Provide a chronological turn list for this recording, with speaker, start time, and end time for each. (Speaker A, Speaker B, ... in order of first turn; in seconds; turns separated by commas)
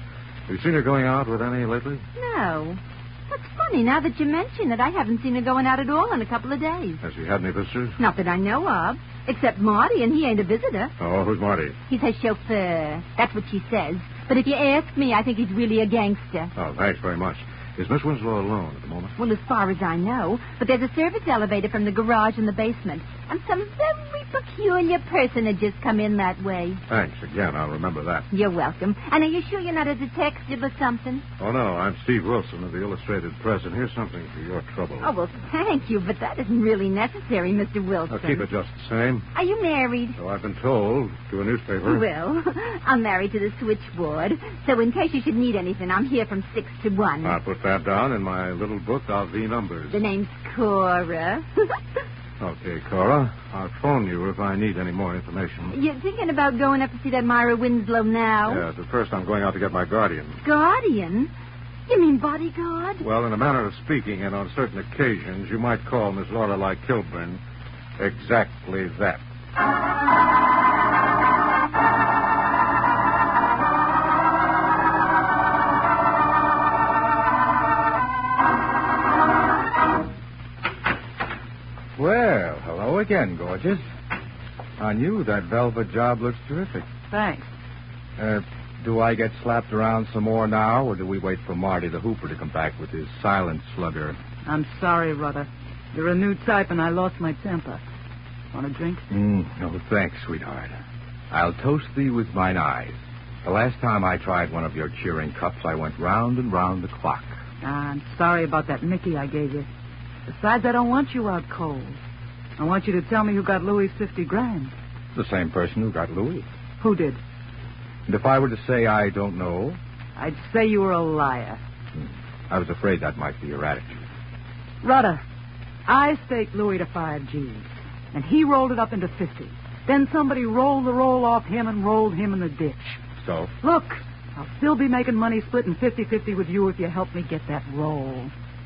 Speaker A: 0.5-2.0, Speaker B: 2.1-7.0, Speaker A: 7.0-8.0, Speaker B: 8.0-10.9, Speaker A: 11.0-11.8, Speaker B: 11.9-16.5, Speaker A: 16.6-19.1, Speaker B: 19.2-26.8, Speaker A: 26.9-28.3, Speaker B: 28.3-31.2, Speaker A: 31.4-35.1, Speaker B: 35.0-38.5, Speaker A: 38.1-39.2, Speaker B: 39.3-40.1, Speaker A: 40.2-42.0, Speaker B: 41.8-47.4, Speaker A: 47.2-50.0, Speaker B: 49.9-51.7, Speaker A: 52.4-55.7, Speaker B: 55.7-58.6, Speaker A: 58.5-60.4, Speaker B: 60.4-61.3, Speaker B: 61.9-63.0, Speaker A: 63.0-67.4, Speaker A: 68.0-69.2, Speaker C: 82.0-83.8, Speaker C: 84.8-86.9, Speaker D: 87.1-87.5, Speaker C: 88.2-94.2, Speaker D: 94.4-97.8, Speaker D: 98.5-99.1, Speaker C: 99.1-100.8, Speaker C: 101.3-107.3, Speaker D: 107.6-109.7, Speaker D: 110.3-112.0, Speaker D: 112.6-114.7, Speaker C: 115.1-116.5, Speaker D: 116.8-117.2, Speaker C: 118.1-119.8, Speaker D: 120.2-121.6, Speaker C: 122.0-124.0, Speaker D: 124.8-125.2, Speaker D: 125.9-133.0, Speaker D: 133.6-138.3